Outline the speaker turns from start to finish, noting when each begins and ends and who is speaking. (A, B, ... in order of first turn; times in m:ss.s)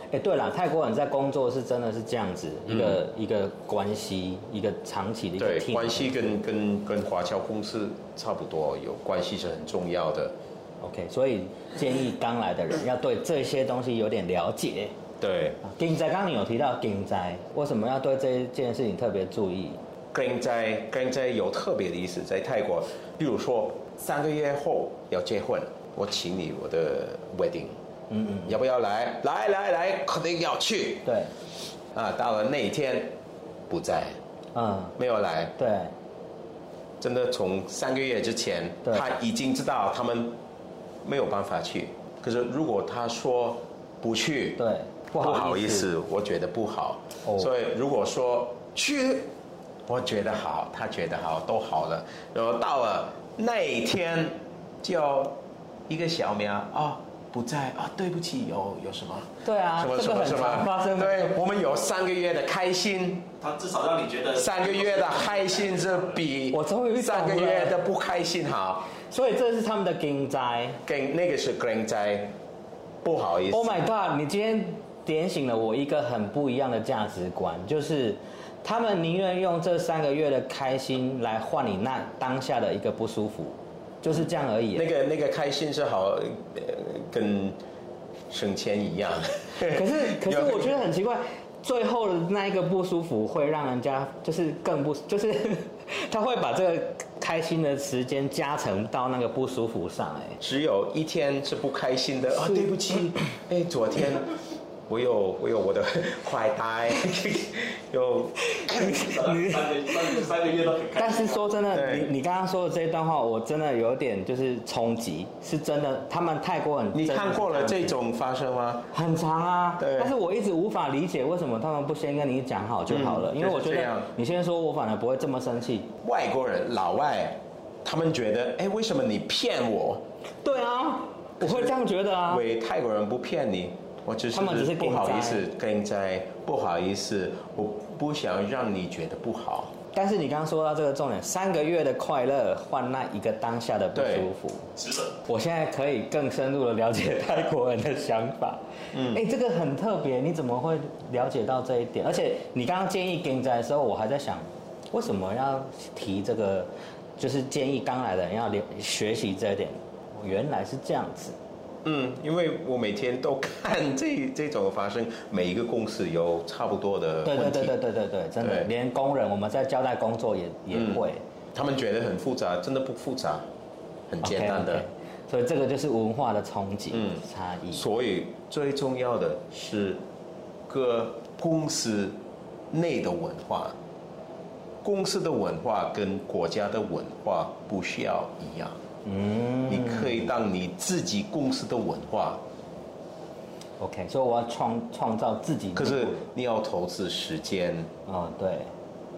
0:00.1-0:06.2 A
0:05.4-0:10.4 B
0:10.8-0:14.9 A
0:15.2-0:15.6 B
0:15.6-0:19.8 A
0:20.1-0:27.8 B
0:28.1-0:28.6 A
0:28.5-0:31.1 B
0:31.0-0:31.3 A
0:31.9-0:33.2 B
0:33.7-0:34.2 B
0:34.5-0:35.0 A
0:35.0-0:35.6 B
0:35.6-0:35.9 A
0:37.0-0:40.4 B
0:41.0-0:44.6 B
0:44.6-0:45.9 A
0:45.2-0:49.3 B
0:49.9-0:55.4 B
0:55.9-1:03.3 B
0:59.4-1:01.4 A
1:03.4-1:06.2 C
1:04.4-1:08.9 B
1:06.5-1:07.8 A
1:09.1-1:10.8 A
1:10.8-1:12.4 B
1:13.0-1:13.8 B
1:13.5-1:24.9 A
1:24.7-1:27.6 B
1:28.3-1:30.8 B
1:29.6-1:40.4 A
1:40.4-1:44.3 B
1:44.9-1:48.8 B
1:48.4-1:50.1 A
1:48.8-1:51.4 C
1:51.0-1:57.9 A
1:51.7-1:52.1 B
1:56.9-1:58.9 B
1:58.9-2:05.9 A
1:59.8-2:00.1 B
2:02.9-2:04.1 B
2:06.0-2:10.0 B
2:10.4-2:12.4 A
2:11.4-2:11.8 B
2:12.3-2:19.7 B
2:14.3-2:15.4 A
2:19.9-2:24.7 A
2:24.0-2:24.3 B
2:25.2-2:41.4 A
2:28.9-2:29.2 B
2:41.8-2:47.8 B
2:47.2-2:51.2 A
2:48.4-2:48.7 B
2:50.7-2:51.0 B
2:51.5-2:53.4 B
2:54.1-2:54.8 B
2:54.2-2:57.8 A
2:57.0-2:57.2 B
2:57.7-3:00.0 B
3:00.7-3:02.2 B
3:02.7-3:03.8 B
3:04.8-3:08.8 B
3:09.0-3:10.3 A
3:09.7-3:12.4 B
3:13.8-3:16.3 A
3:15.8-3:17.9 B
3:18.1-3:18.7 A